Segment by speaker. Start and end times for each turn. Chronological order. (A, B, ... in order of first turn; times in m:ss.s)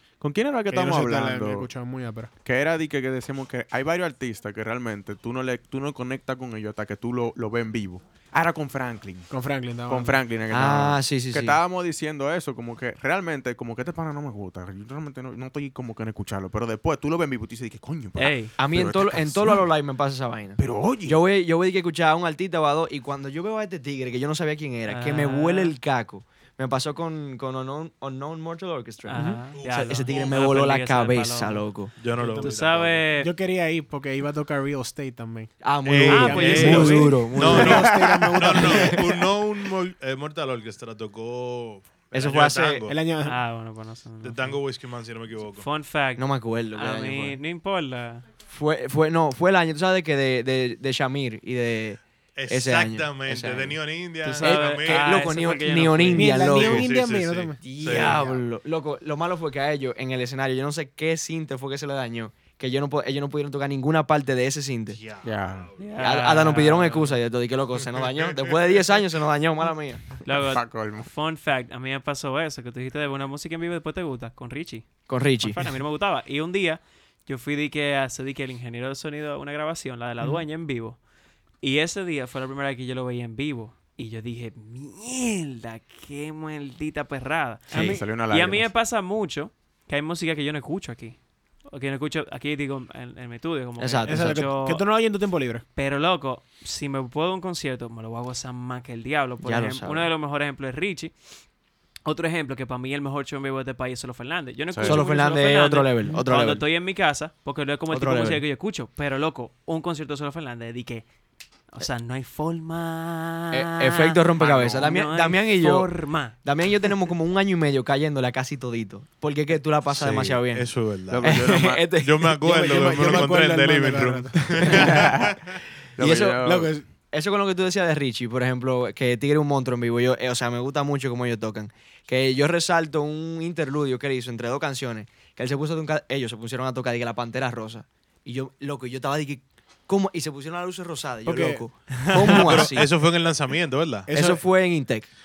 0:00.2-0:01.7 A
0:00.7-0:02.3 B
0:02.4-0:09.3 A
0:09.3-0:10.2 B
0:09.9-0:19.6 A
0:10.5-0:11.6 C
0:18.2-0:18.5 D
0:18.6-0:31.9 C
0:20.6-0:21.2 A
0:24.8-0:25.7 D
0:29.0-0:31.6 D
0:29.1-0:29.4 B
0:29.5-0:30.4 E
0:32.0-0:33.0 E
0:32.2-0:32.6 B
0:32.4-0:33.3 D
0:33.2-0:39.2 B
0:35.6-0:37.9 C
0:35.8-0:42.9 E
0:36.0-0:37.1 D
0:38.6-0:39.0 C
0:42.1-0:42.9 C
0:42.9-0:43.4 B
0:43.2-0:44.6 D
0:44.2-0:45.7 E
0:45.5-0:48.3 D
0:46.2-0:47.4 C
0:48.4-0:53.8 C
0:52.4-0:55.3 E
0:54.2-0:56.4 D
0:54.4-0:56.9 C
0:56.1-0:57.7 B
0:56.4-0:58.2 E
0:57.6-1:05.0 C
1:04.9-1:06.0 E
1:05.2-1:05.7 A
1:05.8-1:07.1 D
1:06.0-1:10.1 C
1:08.0-1:08.7 E
1:10.2-1:21.0 D
1:10.3-1:11.1 A
1:15.1-1:15.6 C
1:21.6-1:34.8 D
1:27.7-1:28.0 B
1:27.7-1:28.0 C
1:27.7-1:28.7 A
1:33.8-1:34.5 C
1:34.0-1:35.6 B
1:35.7-1:41.1 D
1:39.4-1:40.1 C
1:42.0-1:51.0 D
1:44.7-1:45.0 A
1:44.8-1:46.6 C
1:47.9-1:48.4 C
1:51.7-1:56.4 D
1:53.5-2:02.3 C
1:54.4-1:54.9 A
1:59.9-2:01.4 E
2:01.1-2:01.9 A
2:02.0-2:05.4 E
2:02.4-2:05.1 B
2:04.7-2:05.4 A
2:06.0-2:06.7 A
2:06.0-2:22.9 C
2:06.4-2:06.8 B
2:21.2-2:22.8 B
2:22.1-2:24.1 E
2:24.1-2:24.4 B
2:24.1-2:25.1 C